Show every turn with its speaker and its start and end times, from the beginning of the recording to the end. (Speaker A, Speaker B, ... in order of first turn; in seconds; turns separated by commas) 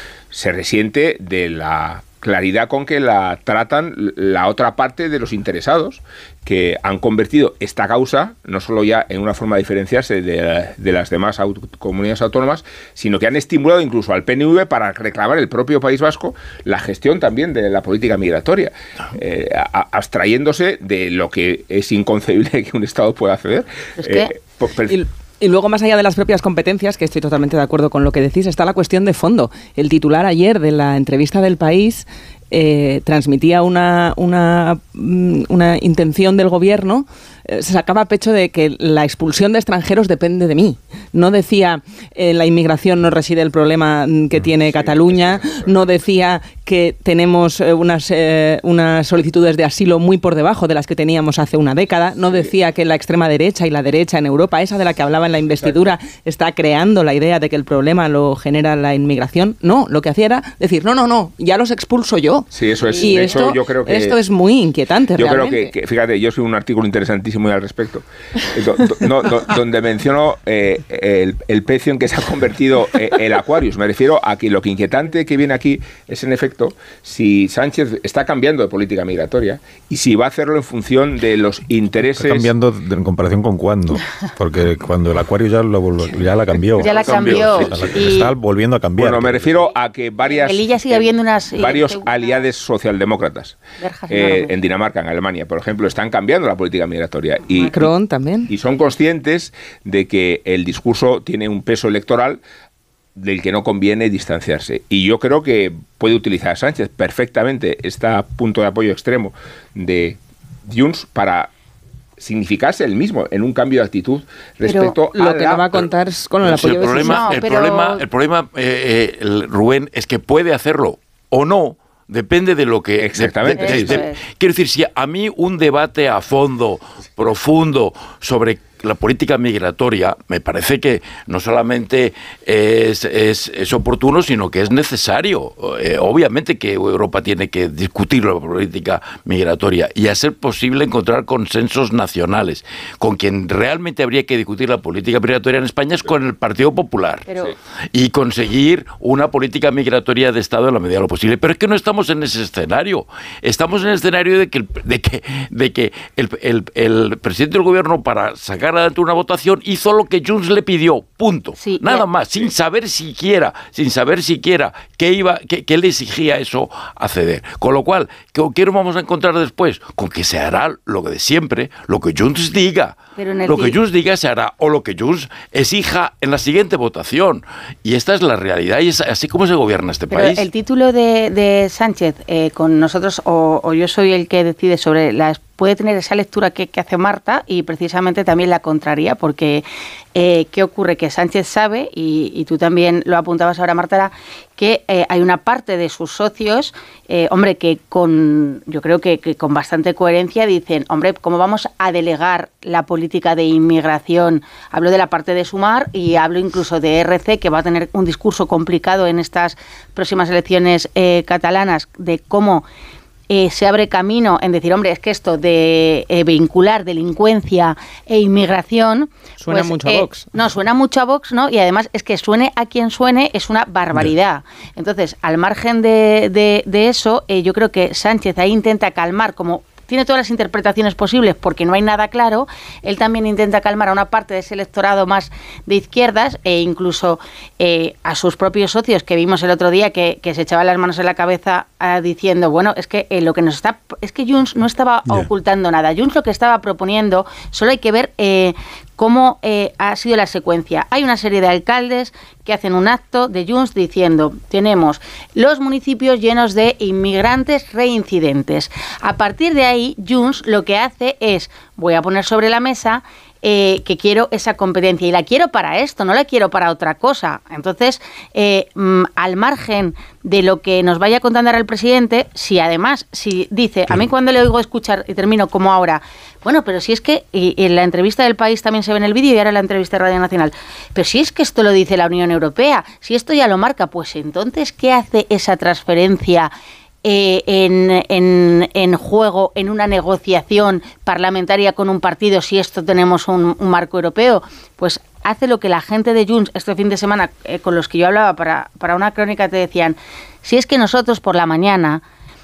Speaker A: 0.3-25.0, Speaker B: 24.0-24.3, Speaker C: 24.9-65.7, Speaker A: 44.6-45.7, Speaker A: 55.6-55.9, Speaker A: 62.5-64.2, Speaker B: 63.0-63.4, Speaker A: 65.2-82.5, Speaker D: 82.2-89.7, Speaker B: 86.8-88.3, Speaker E: 86.9-88.2, Speaker A: 87.0-87.4, Speaker A: 89.0-97.9, Speaker B: 90.3-92.4, Speaker B: 93.8-94.5, Speaker C: 97.5-98.5, Speaker A: 98.5-102.4, Speaker A: 103.2-111.5, Speaker A: 112.2-115.9, Speaker C: 114.8-117.3, Speaker E: 116.4-147.3, Speaker B: 116.8-118.0, Speaker A: 123.0-124.0, Speaker B: 123.6-124.2, Speaker E: 147.9-180.5, Speaker B: 161.6-162.1, Speaker B: 173.2-173.8, Speaker B: 180.1-212.7, Speaker B: 213.3-286.5, Speaker C: 219.4-220.3, Speaker B: 287.0-302.0